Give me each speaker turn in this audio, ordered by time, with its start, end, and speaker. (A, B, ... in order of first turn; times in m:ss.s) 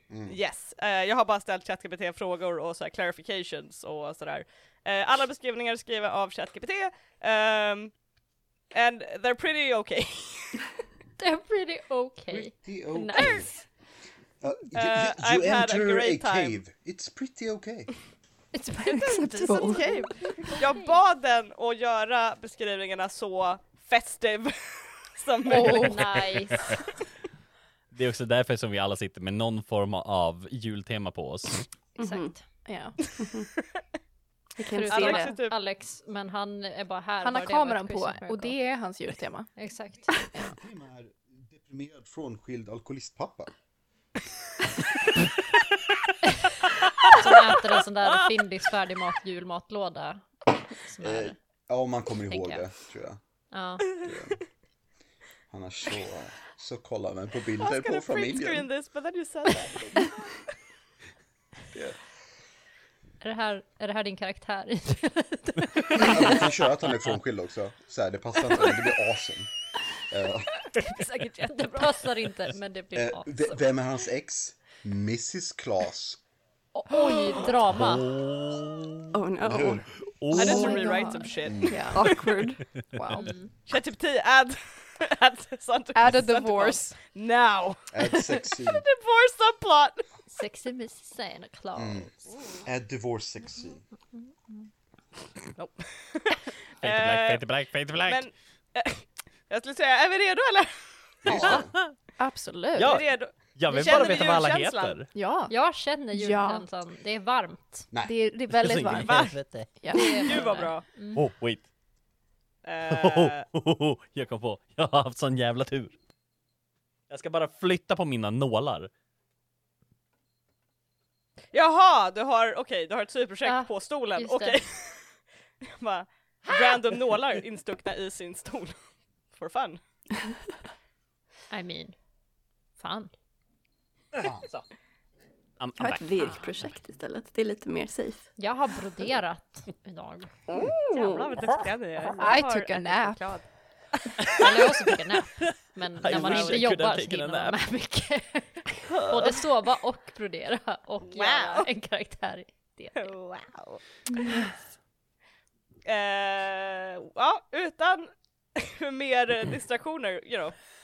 0:00.1-0:00.4 A
0:00.3-0:07.9 B
0:08.7-0:10.6 B
0:11.2-0:13.6 C
0:12.3-0:13.5 A
0:14.4-0:17.9 A
0:14.7-0:16.6 B
0:18.5-0:19.6 C
0:18.8-0:20.0 D
0:19.0-0:26.0 B
0:20.4-0:20.8 C
0:25.5-0:25.9 E
0:25.6-0:26.8 C
0:27.9-0:31.6 F
0:32.0-0:32.3 D
0:32.0-0:32.4 C
0:32.6-0:33.1 E
0:34.6-0:35.3 D
0:34.6-0:38.6 C
0:34.9-0:35.5 B
0:37.2-0:39.5 E
0:39.5-0:40.3 C
0:40.3-0:40.6 E
0:40.4-0:43.5 A
0:47.1-0:51.4 C
0:51.0-0:53.2 A
0:52.3-0:52.7 C
0:53.5-0:54.0 C
0:54.0-0:54.4 A
0:55.5-0:58.7 A
0:57.6-1:00.5 B
1:01.7-1:02.0 A
1:03.2-1:06.6 C
1:05.9-1:09.5 A
1:10.0-1:10.7 A
1:10.8-1:13.6 C
1:12.9-1:16.2 A
1:16.7-1:17.5 E
1:16.9-1:18.2 C
1:17.7-1:19.2 F
1:19.1-1:20.7 D
1:19.4-1:19.9 A
1:20.2-1:21.0 F
1:20.3-1:22.2 E
1:20.3-1:22.3 B
1:21.4-1:21.9 A
1:21.9-1:22.6 D
1:22.9-1:23.3 E
1:23.1-1:23.5 C
1:23.6-1:30.0 B
1:25.9-1:26.9 E
1:27.9-1:28.8 A
1:30.3-1:32.1 C
1:31.7-1:32.1 A
1:32.6-1:33.8 A
1:34.1-1:34.7 C
1:35.6-1:37.4 B
1:36.8-1:38.2 F
1:38.0-1:41.6 B
1:41.2-1:41.7 A
1:41.3-1:41.9 F
1:42.2-1:43.0 E
1:42.8-1:45.1 F
1:42.8-1:45.0 B
1:43.7-1:44.1 C
1:45.1-1:45.5 E
1:45.5-1:47.9 C
1:46.1-1:46.6 E
1:48.0-1:50.4 E
1:48.5-1:49.7 F
1:49.0-1:49.4 B
1:49.9-1:51.2 C
1:49.9-1:50.8 B
1:51.1-1:51.6 F
1:52.6-1:53.4 B
1:52.9-1:56.0 F
1:57.1-1:58.9 F
2:01.5-2:08.8 B
2:03.4-2:04.6 C
2:09.3-2:09.8 B
2:11.5-2:11.9 C
2:12.8-2:13.1 C
2:14.2-2:14.4 A
2:15.6-2:16.5 F
2:15.8-2:18.3 D
2:18.4-2:20.4 C
2:20.5-2:21.3 D
2:20.9-2:24.2 B
2:22.2-2:23.2 E
2:24.3-2:33.2 C
2:25.5-2:27.6 F
2:26.0-2:26.7 B
2:31.0-2:31.7 B
2:33.0-2:33.8 B
2:35.8-2:40.6 B